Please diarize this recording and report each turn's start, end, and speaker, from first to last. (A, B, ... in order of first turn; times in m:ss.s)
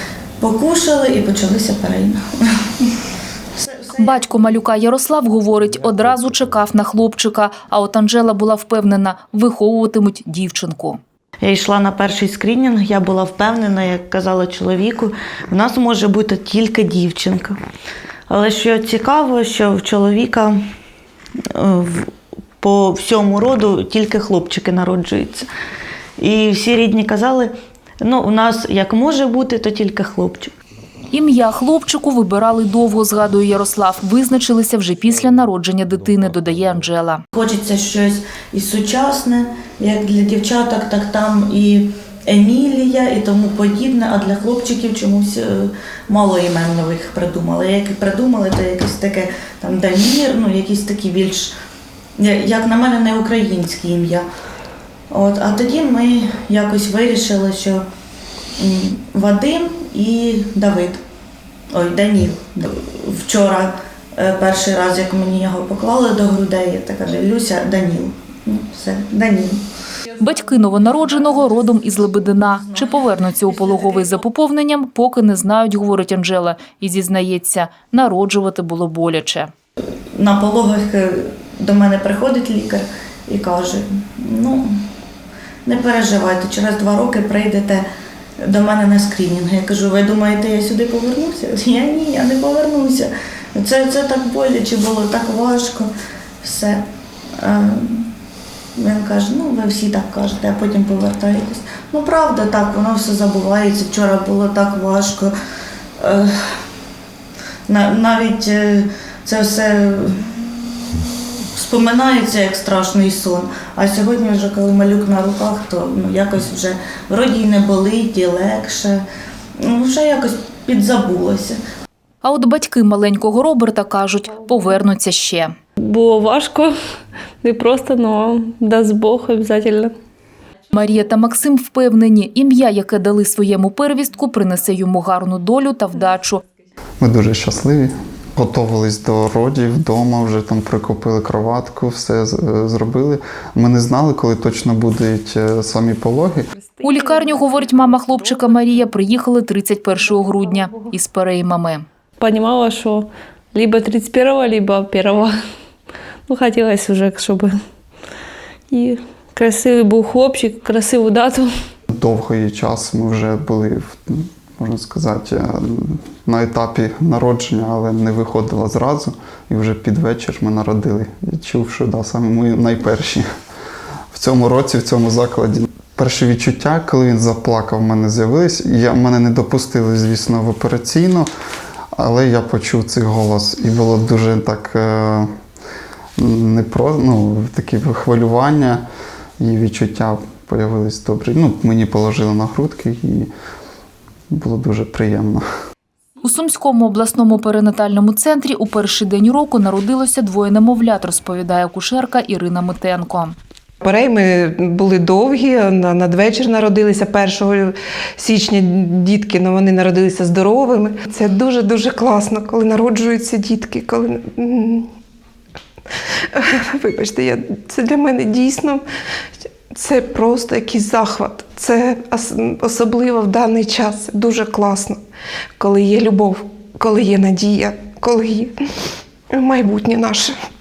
0:00.4-0:02.6 A
0:03.6-0:04.5 A
0:04.0-0:11.0 B
0:11.4-0:17.6 A
0:18.3-0:20.6 A
0:21.5-0:25.5 A
0:26.2-0:30.5 A
0:31.1-0:37.2 B
0:37.3-0:51.5 A
0:52.2-0:54.2 A
0:55.1-0:57.8 A
0:58.6-1:01.0 A
1:01.7-1:09.6 A
1:10.2-1:19.5 B
1:20.1-1:24.7 A
1:25.7-1:27.9 A
1:28.4-1:35.9 A
1:36.4-1:36.8 A
1:37.4-1:38.1 A
1:38.8-1:45.3 A
1:46.0-1:46.6 A
1:47.7-1:50.2 A
1:51.6-1:59.0 A
1:59.6-2:01.6 A
2:02.2-2:05.5 B
2:05.8-2:06.7 C
2:07.4-2:09.9 C
2:10.7-2:16.4 B
2:17.0-2:26.5 D
2:26.8-2:31.8 B
2:32.2-2:35.3 C
2:36.3-2:37.5 C
2:38.7-2:41.5 C
2:41.9-2:53.2 D
2:54.1-3:01.3 D
3:01.9-3:05.3 D
3:06.2-3:08.8 D
3:09.4-3:13.3 D
3:14.3-3:15.4 D
3:16.2-3:23.4 B
3:23.8-3:34.9 E
3:36.1-3:38.8 E
3:39.4-3:45.0 E
3:45.6-3:48.5 E
3:49.3-3:50.4 E